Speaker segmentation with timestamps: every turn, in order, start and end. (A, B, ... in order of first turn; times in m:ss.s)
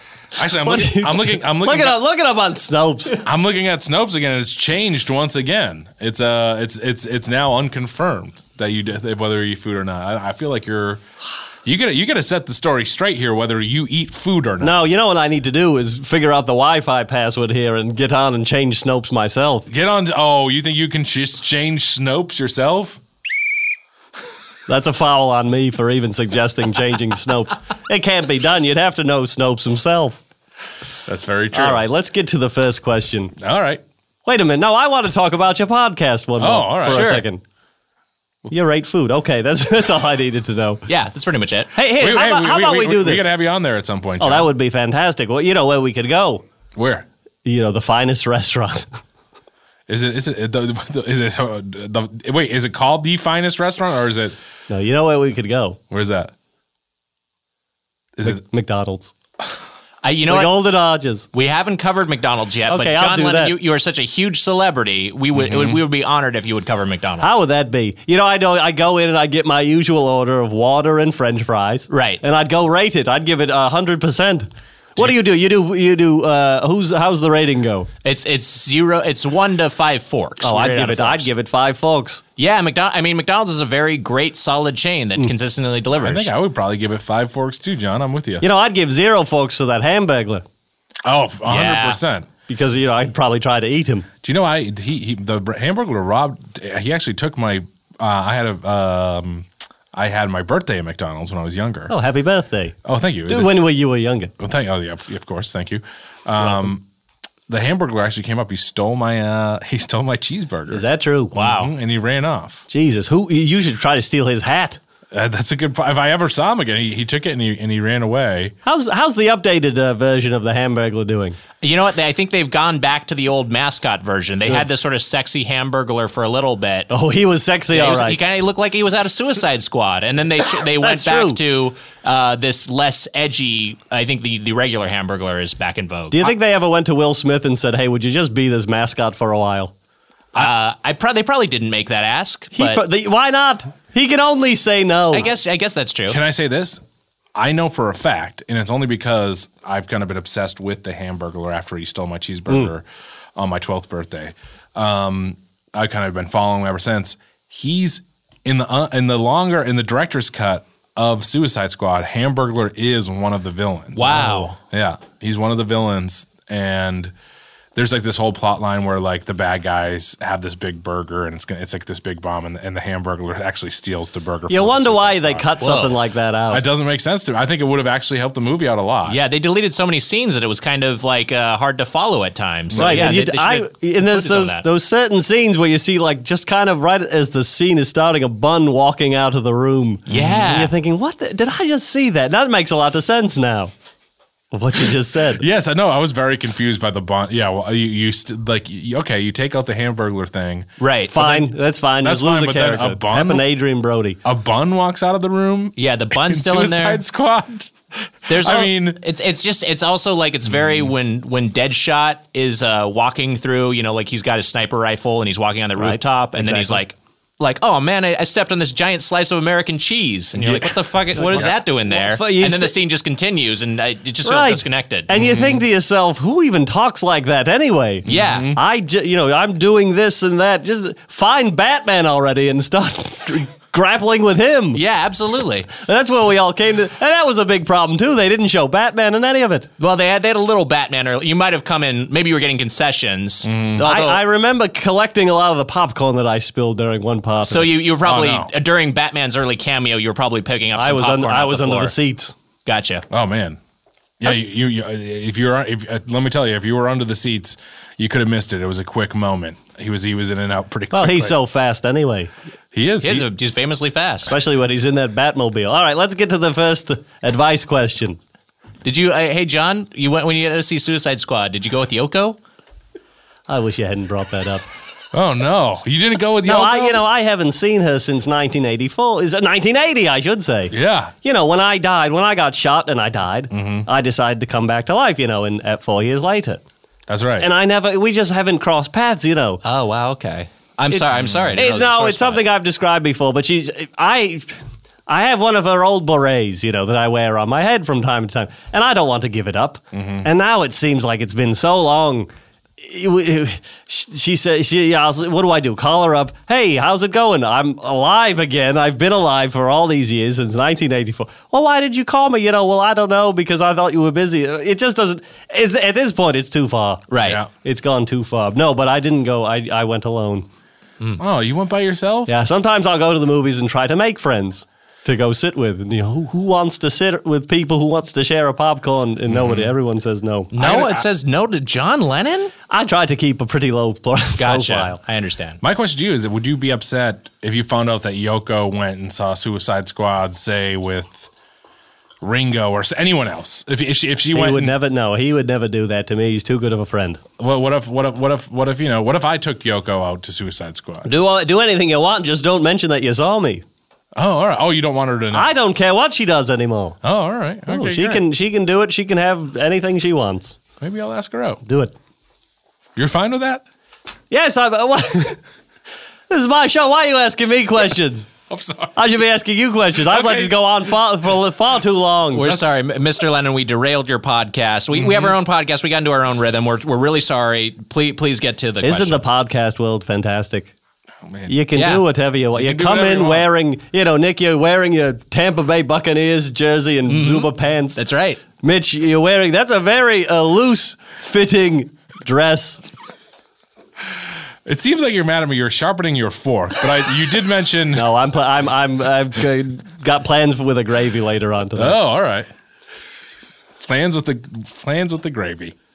0:00.4-0:02.0 A
0:00.6-0:03.2 B
0:03.2-0:11.0 A
0:11.6-0:14.8 A
0:14.6-0:19.7 B
0:19.7-0:23.0 A
0:24.7-0:30.2 B
0:31.1-0:31.8 A
0:31.5-0:33.3 B
0:33.4-0:33.8 A
0:34.3-0:37.4 B
0:36.4-0:37.1 A
0:36.9-0:37.2 C
0:38.5-0:40.8 B
0:40.9-0:41.7 C
0:41.7-0:43.3 B
0:41.9-0:44.5 A
0:44.2-0:46.4 B
0:46.8-0:47.1 A
0:47.4-0:49.0 B
0:49.9-0:54.4 A
0:54.7-0:55.8 B
0:55.9-0:56.3 A
0:58.2-0:59.1 B
1:00.0-1:00.6 C
1:00.3-1:01.3 B
1:01.3-1:07.4 C
1:02.7-1:03.6 B
1:05.3-1:05.8 A
1:07.2-1:17.9 B
1:11.9-1:12.2 C
1:18.0-1:21.3 C
1:20.4-1:22.2 B
1:22.4-1:26.3 C
1:26.0-1:28.4 A
1:28.4-1:30.4 B
1:31.0-1:32.3 A
1:31.5-1:32.0 C
1:32.5-1:34.1 B
1:34.2-1:41.9 A
1:41.9-1:42.8 B
1:42.8-1:43.6 A
1:43.3-1:44.3 B
1:44.4-1:46.8 A
1:47.5-1:50.8 A
1:50.7-1:51.4 B
1:51.3-1:52.6 A
1:51.4-1:51.7 C
1:52.7-1:54.8 B
1:55.1-1:58.5 A
1:58.6-2:01.4 B
2:01.6-2:06.9 C
2:06.9-2:08.2 B
2:07.7-2:16.3 C
2:10.8-2:11.4 B
2:16.1-2:19.7 B
2:20.4-2:22.8 C
2:22.6-2:25.3 B
2:25.1-2:26.2 C
2:26.1-2:26.8 A
2:27.4-2:32.8 A
2:33.4-2:47.1 A
2:44.0-2:44.6 C
2:44.1-2:44.5 B
2:47.8-2:55.6 A
2:54.5-2:56.6 B
2:55.6-2:56.0 C
2:56.5-2:59.2 A
2:59.1-3:04.6 C
3:02.7-3:03.1 A
3:02.8-3:13.7 B
3:10.1-3:10.7 C
3:10.1-3:10.6 A
3:14.5-3:15.4 B
3:15.4-3:20.7 A
3:20.8-3:21.5 C
3:21.1-3:24.2 B
3:22.0-3:23.4 A
3:24.2-3:27.7 A
3:25.8-3:27.0 C
3:28.2-3:29.0 A
3:28.3-3:45.1 C
3:35.8-3:36.8 B
3:40.4-3:41.6 A
3:41.2-3:42.8 B
3:44.2-3:54.8 B
3:45.1-3:45.6 A
3:48.1-3:48.6 A
3:48.1-3:48.6 C
3:54.7-3:55.7 C
3:55.7-3:59.7 B
3:59.8-4:04.2 C
4:03.4-4:03.8 A
4:03.8-4:07.8 B
4:07.4-4:11.9 C
4:08.0-4:08.5 A
4:10.8-4:12.3 B
4:12.7-4:13.0 C
4:13.1-4:13.6 A
4:14.2-4:21.4 A
4:20.9-4:22.3 B
4:22.7-4:23.3 A
4:23.0-4:24.3 C
4:24.3-4:28.2 B
4:28.8-4:32.4 C
4:33.5-4:34.6 B
4:35.1-4:37.0 A
4:36.4-4:46.6 B
4:40.7-4:41.1 A
4:43.5-4:43.9 A
4:47.1-4:47.5 A
4:47.4-4:49.6 B
4:49.6-4:52.5 C
4:50.9-4:54.5 B
4:51.2-4:51.6 A
4:55.1-5:20.5 B
4:59.9-5:00.3 A
5:17.1-5:17.4 C
5:17.2-5:17.5 A
5:21.2-5:22.3 A
5:22.3-5:30.6 B
5:29.3-5:29.7 A
5:30.5-5:32.5 C
5:30.6-5:31.0 A
5:32.7-5:35.0 B
5:34.4-5:35.6 C
5:35.6-5:41.3 A
5:42.2-5:44.8 A
5:44.3-5:47.2 B
5:47.4-5:51.1 A
5:51.0-5:53.6 B
5:54.2-5:55.5 A
5:55.3-5:57.0 B
5:57.0-5:58.2 A
5:57.7-6:00.6 B
6:00.8-6:01.6 A
6:01.6-6:01.9 B
6:03.0-6:03.6 A
6:04.3-6:05.4 B
6:06.3-6:08.3 B
6:08.5-6:09.0 A
6:09.0-6:12.6 B
6:10.0-6:10.6 A
6:12.3-6:19.2 C
6:15.0-6:15.3 A
6:18.8-6:20.7 B
6:21.2-6:21.6 A
6:21.5-6:28.0 B
6:21.8-6:22.0 C
6:22.5-6:23.5 A
6:27.1-6:28.4 C
6:28.6-6:32.8 B
6:34.6-6:38.1 A
6:38.0-6:42.0 B
6:41.8-6:42.5 A
6:43.8-6:45.8 A